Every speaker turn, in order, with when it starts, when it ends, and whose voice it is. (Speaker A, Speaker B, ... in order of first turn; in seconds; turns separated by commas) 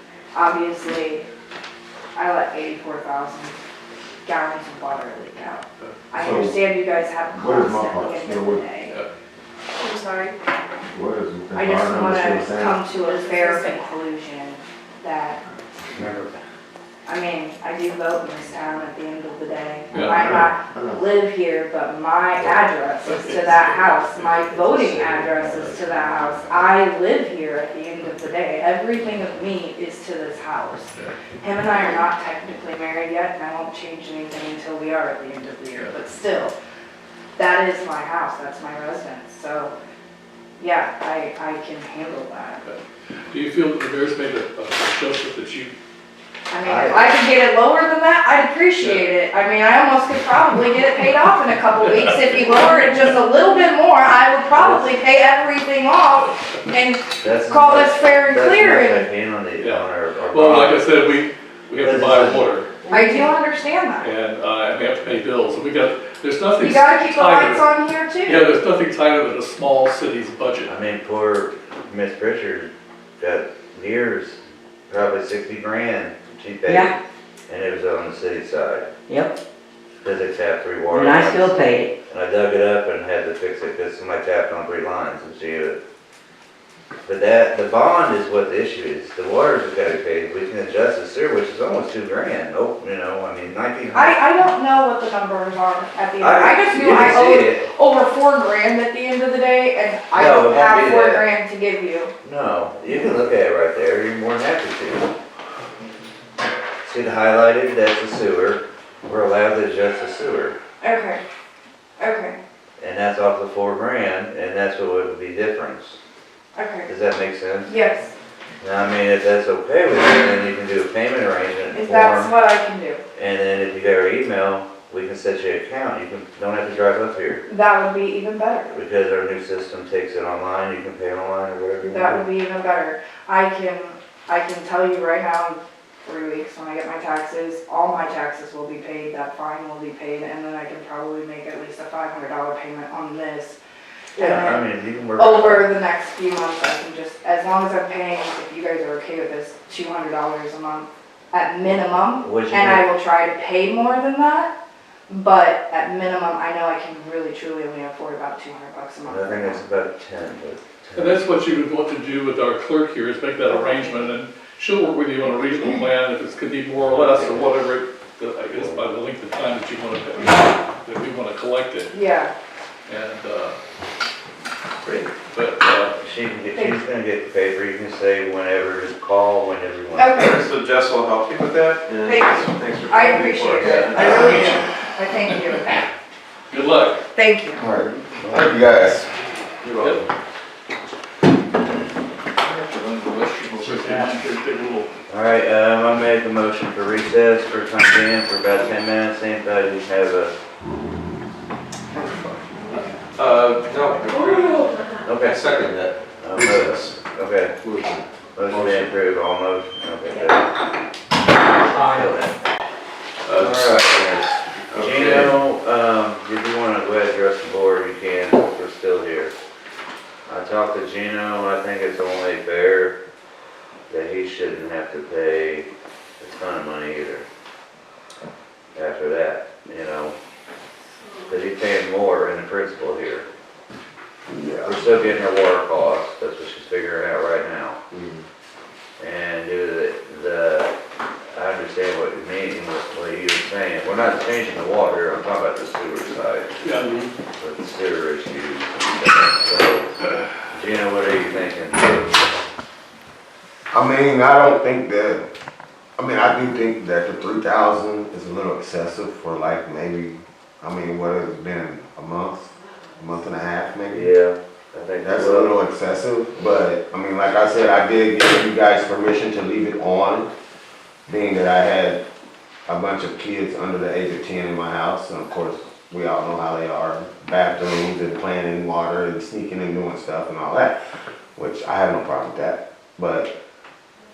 Speaker A: 0.3-1.2, Speaker A: 2.1-3.6, Speaker A: 4.2-9.0, Speaker B: 6.2-6.7, Speaker B: 7.3-8.6, Speaker C: 9.8-10.3, Speaker B: 10.9-12.8, Speaker A: 11.5-15.4, Speaker C: 13.0-13.8, Speaker D: 15.9-16.4, Speaker A: 17.1-36.5, Speaker E: 19.9-20.3, Speaker B: 19.9-21.0, Speaker E: 23.0-24.8, Speaker D: 24.9-25.8, Speaker A: 37.4-39.7, Speaker A: 40.6-42.6, Speaker E: 42.6-45.7, Speaker A: 46.5-59.1, Speaker D: 46.6-47.2, Speaker E: 48.8-49.1, Speaker E: 51.8-53.2, Speaker D: 54.6-54.9, Speaker D: 57.2-60.9, Speaker E: 59.6-62.9, Speaker D: 61.8-62.5, Speaker A: 62.9-64.1, Speaker E: 64.0-67.7, Speaker A: 66.6-68.5, Speaker E: 68.2-70.7, Speaker D: 70.7-74.4, Speaker D: 74.9-77.0, Speaker F: 76.7-76.9, Speaker D: 77.5-78.9, Speaker F: 79.1-79.3, Speaker D: 80.0-85.8, Speaker F: 80.9-81.9, Speaker D: 87.0-94.2, Speaker A: 93.9-102.1, Speaker D: 96.2-97.7, Speaker D: 100.1-101.3, Speaker D: 102.2-105.1, Speaker D: 106.8-110.6, Speaker A: 110.8-111.2, Speaker A: 112.0-112.4, Speaker D: 112.8-116.0, Speaker A: 116.5-116.9, Speaker D: 116.9-117.8, Speaker A: 117.7-118.1, Speaker D: 118.6-122.3, Speaker A: 121.7-123.0, Speaker D: 123.2-127.4, Speaker A: 127.5-128.7, Speaker D: 128.7-132.3, Speaker A: 131.8-143.6, Speaker D: 144.2-145.7, Speaker A: 144.2-154.5, Speaker D: 152.2-152.8, Speaker A: 155.1-159.7, Speaker D: 159.0-161.2, Speaker E: 161.0-171.9, Speaker A: 163.5-164.1, Speaker D: 166.8-167.6, Speaker D: 168.5-168.9, Speaker A: 171.9-172.3, Speaker E: 172.9-173.6, Speaker G: 174.8-175.1, Speaker E: 175.2-176.0, Speaker D: 176.0-180.2, Speaker A: 176.5-176.8, Speaker A: 179.9-180.4, Speaker G: 180.2-184.6, Speaker A: 182.1-185.8, Speaker E: 183.7-184.7, Speaker E: 185.2-185.8, Speaker E: 186.5-187.0, Speaker A: 187.1-187.7, Speaker B: 187.6-189.1, Speaker D: 188.2-188.5, Speaker G: 189.6-190.1, Speaker G: 192.4-193.1, Speaker E: 192.5-194.9, Speaker D: 195.1-200.3, Speaker G: 202.0-202.4, Speaker G: 203.1-207.0, Speaker C: 204.2-204.8, Speaker D: 205.0-205.5, Speaker D: 206.2-207.5, Speaker D: 208.3-210.5, Speaker B: 208.5-208.8, Speaker G: 208.5-208.9, Speaker D: 211.5-212.3, Speaker F: 211.7-212.1, Speaker G: 213.2-215.4, Speaker D: 213.3-214.2, Speaker D: 214.8-219.3, Speaker D: 220.3-222.9, Speaker D: 223.9-225.7, Speaker D: 226.2-227.2, Speaker D: 228.8-230.2, Speaker D: 231.3-233.3, Speaker B: 234.3-235.1, Speaker D: 234.6-237.8, Speaker B: 237.9-238.2, Speaker D: 239.0-240.7, Speaker D: 241.3-246.6, Speaker E: 246.6-247.1, Speaker D: 247.4-249.9, Speaker D: 250.5-252.1, Speaker B: 253.7-255.2, Speaker B: 256.0-264.1, Speaker D: 263.9-265.6, Speaker B: 265.0-270.3, Speaker B: 271.1-272.0, Speaker B: 272.7-280.8, Speaker B: 281.4-283.3